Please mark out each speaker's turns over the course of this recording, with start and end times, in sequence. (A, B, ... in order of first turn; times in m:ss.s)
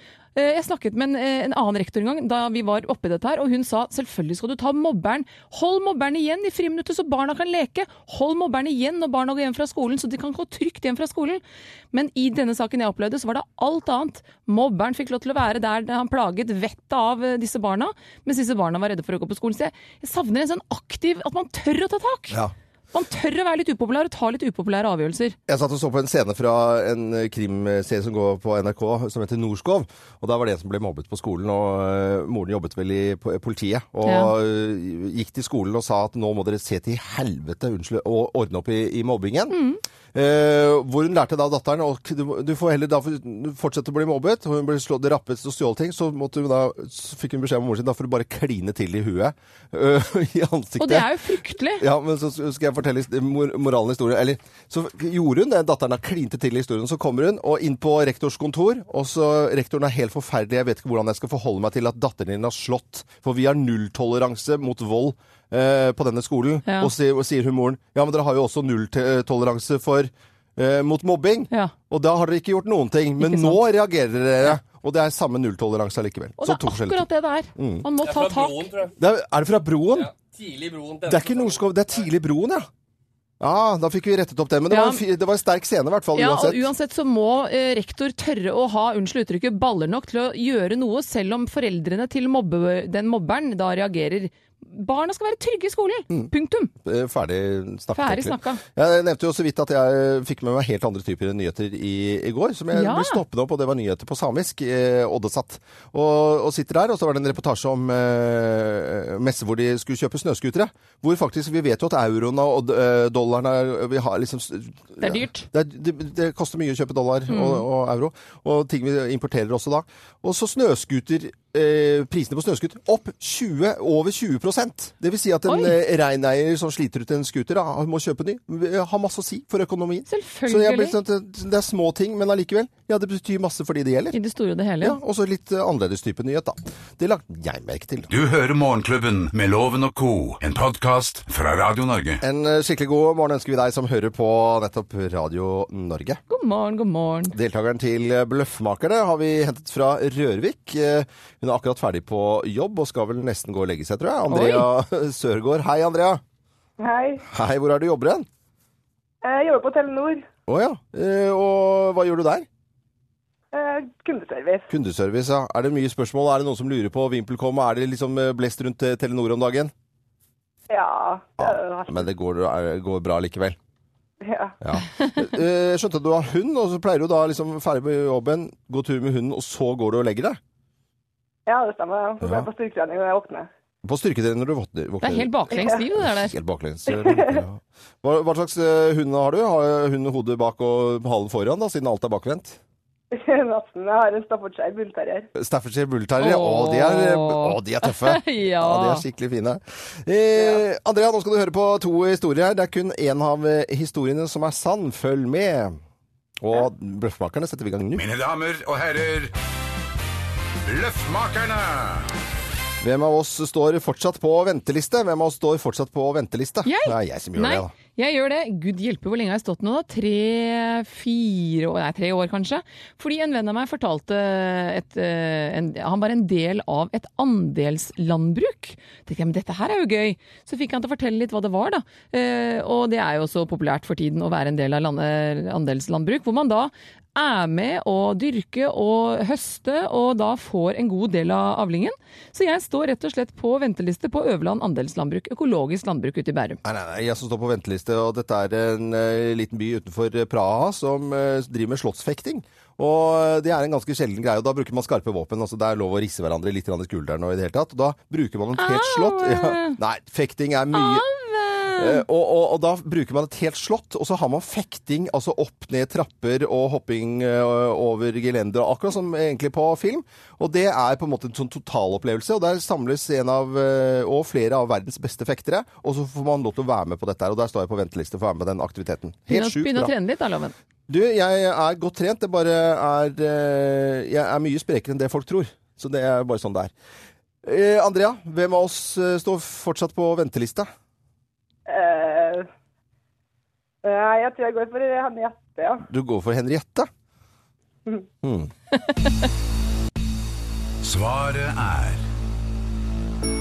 0:00.4-0:22.4 A
0:22.9-0:25.4 A
0:25.5-0:39.6 B
0:34.0-0:34.3 A
0:39.5-0:39.8 A
0:40.1-0:51.1 B
0:50.8-0:51.8 A
0:51.8-1:17.9 B
1:06.7-1:06.9 A
1:13.2-1:13.6 A
1:16.4-1:18.7 A
1:18.0-1:19.0 C
1:19.0-1:20.1 B
1:19.9-1:22.1 C
1:21.1-1:22.7 B
1:23.4-1:26.7 B
1:24.7-1:25.0 A
1:26.2-1:36.7 A
1:36.8-2:14.2 B
1:38.0-1:38.6 A
1:42.7-1:43.2 A
1:55.0-1:55.5 A
1:57.3-1:57.7 A
2:05.5-2:05.8 A
2:10.1-2:11.0 A
2:14.1-2:15.0 A
2:14.8-2:18.1 B
2:18.1-2:22.2 D
2:22.2-2:26.2 B
2:26.3-2:27.4 A
2:27.3-2:36.2 B
2:34.3-2:34.7 A
2:36.8-2:37.2 E
2:37.3-2:38.3 B
2:39.2-2:40.2 E
2:40.5-2:42.5 B
2:43.5-2:44.7 E
2:44.7-2:49.7 B
2:50.7-2:52.1 E
2:51.4-2:53.6 B
2:54.2-2:54.6 E
2:54.6-3:00.4 B
3:01.5-3:03.5 E
3:02.2-3:02.5 B
3:03.8-3:12.6 B
3:05.0-3:06.3 A
3:06.9-3:07.4 E
3:13.1-3:15.3 E
3:15.4-3:25.8 B
3:16.2-3:19.0 A
3:20.4-3:20.6 E
3:26.4-3:28.1 B
3:28.0-3:29.3 D
3:30.6-3:32.1 D
3:32.8-3:37.7 B
3:36.6-4:06.6 A
4:06.6-4:21.1 B
4:18.6-4:19.8 A
4:20.7-4:22.0 A
4:21.8-4:39.9 B
4:39.3-4:40.6 A
4:40.9-4:46.7 B
4:47.4-4:50.7 B
4:51.7-4:52.5 E
4:53.8-4:55.8 E
4:55.9-4:56.9 B
4:58.2-4:58.5 B
4:58.9-4:59.1 A
5:00.8-5:02.0 D